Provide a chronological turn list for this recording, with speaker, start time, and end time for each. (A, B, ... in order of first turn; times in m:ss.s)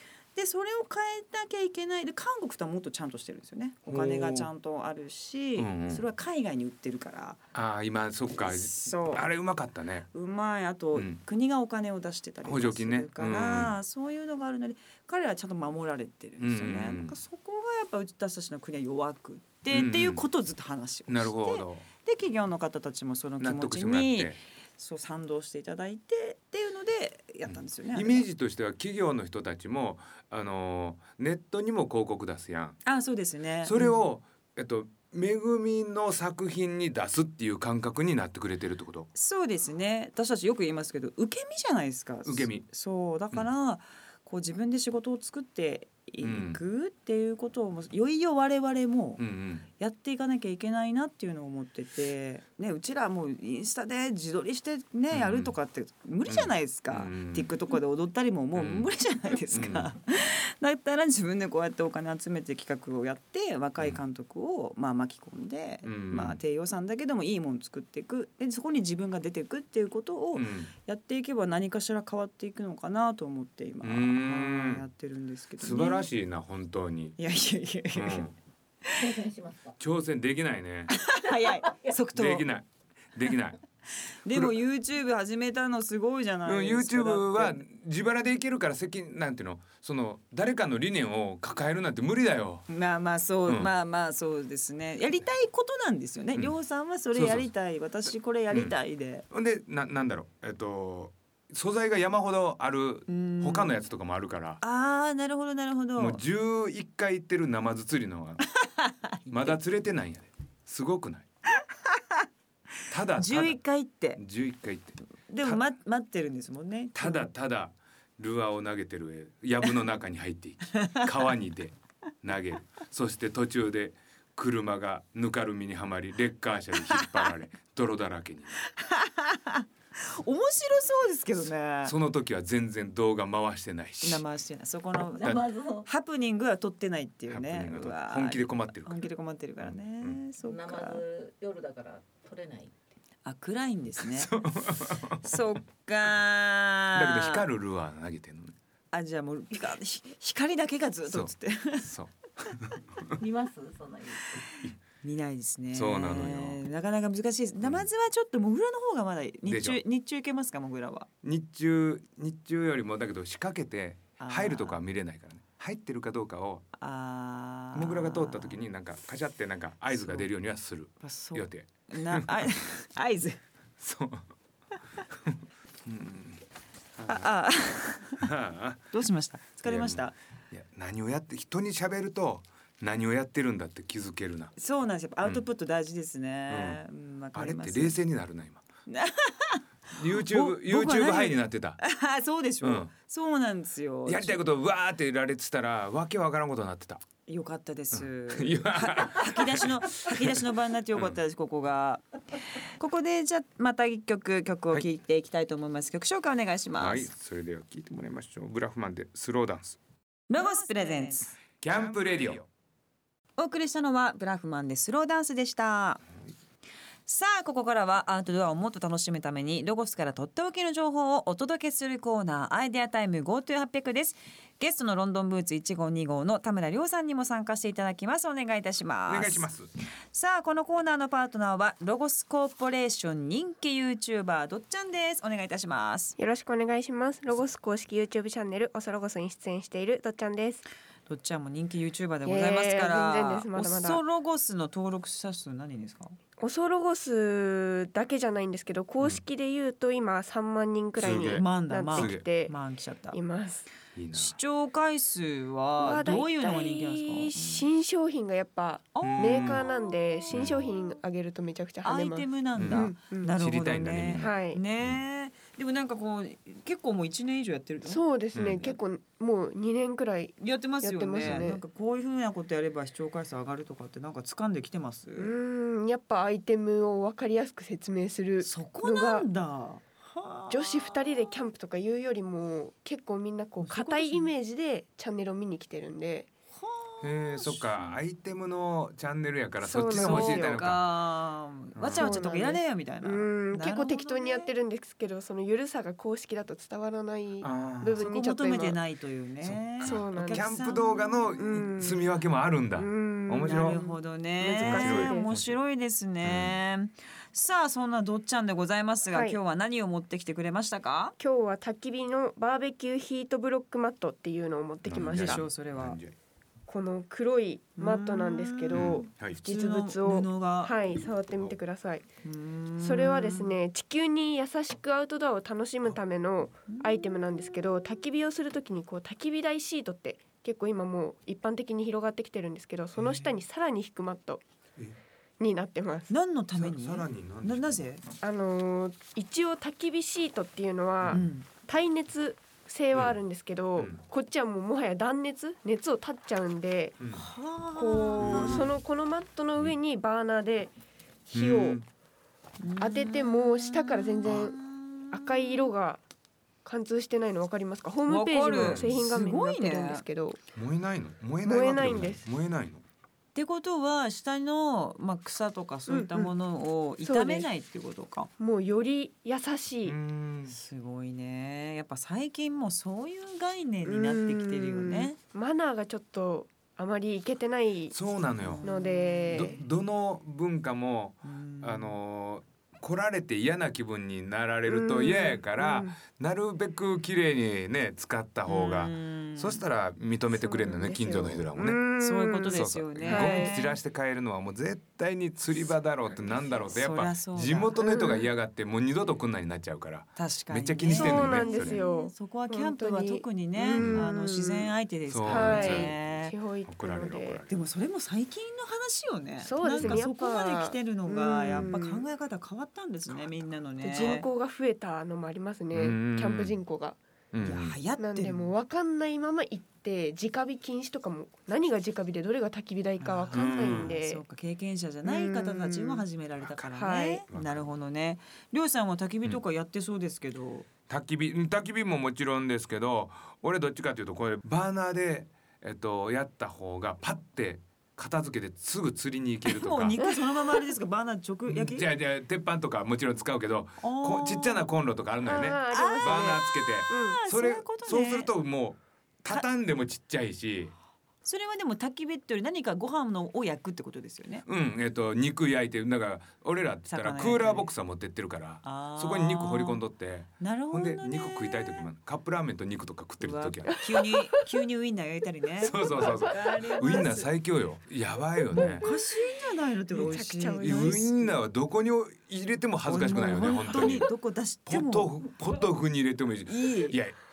0:00.4-0:07.4 A
0:03.9-0:04.5 B
0:05.6-0:06.0 B
0:07.5-0:10.1 B
0:08.4-0:09.2 A
0:10.1-0:28.3 A
0:10.9-0:11.2 B
0:12.4-0:13.8 B
0:16.4-0:17.2 B
0:19.7-0:20.2 B
0:21.1-0:21.9 B
0:23.4-0:24.4 B
0:27.5-0:32.8 B
0:32.8-0:34.0 A
0:33.6-0:39.1 B
0:39.2-0:49.2 A
0:42.2-0:42.6 B
0:46.2-0:46.6 B
0:49.2-0:49.7 B
0:49.8-1:16.1 A
0:55.1-0:55.5 B
0:56.3-0:57.5 B
0:58.6-0:58.9 B
0:59.5-0:59.9 B
1:05.8-1:06.4 B
1:10.3-1:10.7 B
1:13.8-1:14.8 B
1:15.6-1:17.2 B
1:17.2-1:18.3 A
1:17.9-1:18.3 B
1:19.0-1:19.8 C
1:19.8-1:21.0 B
1:20.9-1:22.5 A
1:21.6-1:21.9 C
1:22.1-1:23.6 B
1:24.2-1:27.6 A
1:24.3-1:24.6 B
1:26.4-1:32.7 B
1:32.7-1:39.2 A
1:37.1-1:37.5 B
1:39.3-1:44.6 B
1:43.1-1:43.8 A
1:44.6-1:46.2 A
1:46.0-1:48.4 B
1:48.6-1:49.5 A
1:49.3-1:51.3 B
1:51.8-1:52.3 A
1:52.9-1:53.6 B
1:53.2-1:54.2 A
1:54.2-1:55.6 B
1:55.3-1:57.3 A
1:57.0-2:08.6 B
2:00.8-2:01.0 A
2:08.6-2:12.0 A
2:11.8-2:14.2 B
2:14.0-2:21.0 A
2:15.1-2:15.9 C
2:17.3-2:19.0 B
2:19.6-2:20.2 B
2:20.4-2:22.8 C
2:23.2-2:24.3 A
2:24.0-2:25.4 B
2:25.2-2:27.4 A
2:26.9-2:28.6 B
2:28.9-2:31.9 A
2:31.1-2:33.2 B
2:33.1-2:34.4 C
2:35.0-2:41.1 A
2:35.7-2:36.6 B
2:39.5-2:39.8 B
2:41.2-2:46.7 B
2:44.2-2:44.8 A
2:46.8-2:48.6 A
2:47.7-2:52.5 B
2:49.9-2:50.3 A
2:51.0-2:53.4 A
2:53.8-2:54.3 B
2:55.1-2:56.4 B
2:57.0-2:57.3 B
2:57.1-2:58.3 A
2:58.2-2:58.9 B
2:58.9-3:00.1 A
2:59.6-3:04.5 B
3:04.6-3:08.0 A
3:06.5-3:06.8 B
3:07.3-3:08.6 B
3:08.9-3:14.4 A
3:09.9-3:11.8 B
3:12.6-3:12.9 B
3:14.1-3:17.0 B
3:17.3-3:22.0 A
3:17.9-3:21.2 B
3:22.8-3:27.1 A
3:26.8-3:29.8 B
3:30.3-3:31.4 A
3:31.6-3:32.5 B
3:33.4-3:36.0 A
3:37.1-3:49.5 A
3:49.1-3:49.7 B
3:50.1-3:56.2 A
3:56.2-4:00.6 D
4:01.1-4:06.2 A
4:02.2-4:04.0 D
4:06.4-4:12.5 D
4:11.0-4:12.3 B
4:11.1-4:13.2 A
4:13.1-4:13.7 D
4:14.0-4:14.4 B
4:14.1-4:17.7 A
4:15.8-4:23.3 D
4:19.0-4:19.9 A
4:19.0-4:19.7 B
4:20.3-4:20.7 B
4:21.8-4:28.0 A
4:22.6-4:25.0 B
4:24.2-4:24.6 D
4:27.8-4:31.6 D
4:28.3-4:28.6 B
4:30.4-4:35.3 A
4:35.2-4:39.3 D
4:38.4-4:41.4 A
4:40.5-4:46.3 D
4:43.6-4:44.3 A
4:46.6-4:48.0 A
4:47.0-4:50.8 B
4:49.6-4:50.7 D
4:49.9-4:54.5 A
4:51.8-4:52.1 B
4:52.0-4:58.8 D
4:57.4-4:58.0 B
4:58.0-5:01.4 A
4:59.4-5:03.8 B
4:59.8-5:00.6 D
5:01.4-5:02.1 D
5:02.8-5:05.3 D
5:03.4-5:11.2 A
5:04.6-5:05.6 B
5:06.2-5:06.6 B
5:09.1-5:09.4 D
5:11.2-5:15.4 D
5:14.8-5:16.2 B
5:15.0-5:16.0 A
5:16.7-5:22.0 D
5:17.8-5:20.7 A
5:18.7-5:19.4 B
5:22.2-5:23.6 A
5:22.8-5:34.4 D
5:26.7-5:27.2 A
5:33.0-5:33.3 B
5:35.4-5:36.1 D
5:36.1-5:38.0 A
5:36.6-5:37.8 B
5:38.2-5:47.0 D
5:41.1-5:41.5 A
5:47.0-5:47.3 B
5:47.1-5:48.7 A
5:47.8-5:50.7 D
5:48.2-5:48.7 B
5:51.3-5:51.8 D
5:51.3-5:51.9 B
5:52.6-5:55.7 A
5:52.8-5:54.6 D
5:55.1-5:56.0 D
5:56.6-6:00.4 D
5:58.1-6:00.0 A
5:58.5-5:59.0 B
6:00.6-6:02.8 B
6:01.4-6:02.3 D
6:03.4-6:08.3 A
6:05.9-6:06.3 D
6:07.0-6:07.5 D
6:08.4-6:10.0 D
6:09.8-6:10.6 B
6:10.5-6:15.2 A
6:13.8-6:18.0 D
6:17.9-6:18.6 B
6:18.4-6:19.6 A
6:18.6-6:19.6 D
6:19.3-6:31.8 B
6:21.2-6:22.0 A
6:24.7-6:25.9 D
6:28.5-6:29.6 A
6:30.3-6:33.6 D
6:32.0-6:33.8 A
6:32.5-6:41.8 B
6:36.7-6:37.8 A
6:37.8-6:38.3 D
6:40.2-6:46.3 A
6:40.9-6:44.7 D
6:43.8-6:44.1 B
6:45.1-6:46.0 B
6:45.2-6:47.4 D
6:46.7-6:47.6 B
6:47.5-6:54.3 A
6:49.4-6:52.1 D
6:49.8-6:50.0 B
6:53.8-6:57.0 D
6:55.7-6:56.6 B
6:57.3-6:57.8 B
6:57.4-6:58.5 A
6:58.0-7:04.2 D
7:03.0-7:10.7 A
7:03.3-7:03.9 B
7:05.0-7:06.1 D
7:06.7-7:07.2 D
7:07.3-7:07.7 B
7:10.9-7:20.1 B
7:19.4-7:21.9 A
7:21.5-7:30.7 B
7:23.8-7:24.7 A
7:25.2-7:27.2 D
7:25.7-7:28.3 A
7:31.2-7:34.4 A
7:34.5-7:43.8 B
7:36.9-7:37.7 A
7:38.6-7:39.8 A
7:40.4-7:41.9 A
7:43.2-7:47.3 A
7:45.6-7:48.9 B
7:48.5-7:49.1 D
7:48.5-7:51.4 A
7:49.9-7:51.1 D
7:50.6-7:54.1 B
7:52.8-7:55.2 A
7:54.7-7:57.2 B
7:56.5-7:57.0 A